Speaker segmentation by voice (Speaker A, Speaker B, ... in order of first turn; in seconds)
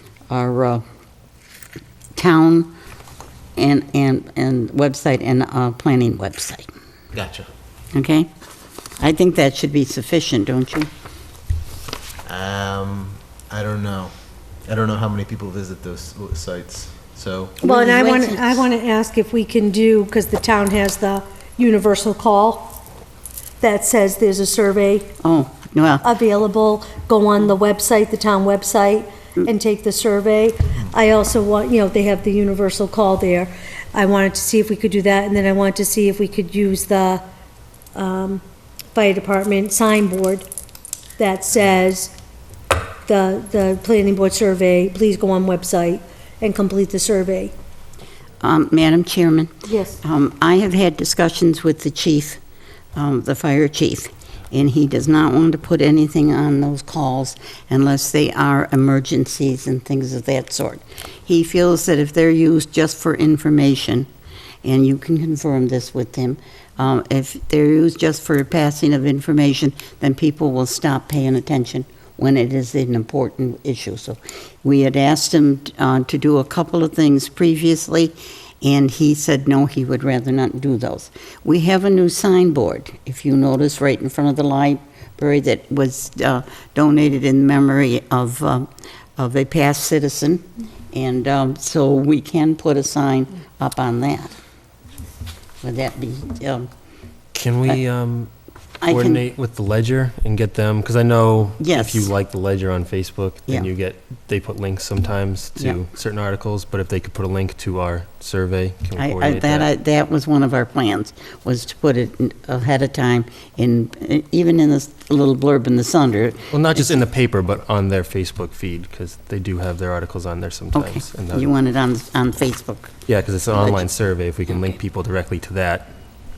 Speaker A: 0.3-0.8, 2.2-2.7, 3.6-6.7, 7.9-8.3, 9.0-10.9, 17.6-18.7, 25.2-26.1, 48.4-52.4, 53.0-64.1, 64.6-94.3, 95.6-96.7, 98.8-99.2, 101.6-102.1, 109.0-117.0, 120.7-122.9, 123.5-123.8, 124.5-124.8
Speaker B: 7.1-7.5, 12.3-14.1, 14.7-17.6
Speaker C: 17.7-22.7, 23.6-25.1, 26.0-37.2, 38.0-38.4, 38.9-40.5, 41.2-42.1, 43.1-47.5, 49.7-50.0
Speaker D: 97.3-98.3, 98.9-109.7, 116.5-121.5, 123.1-125.9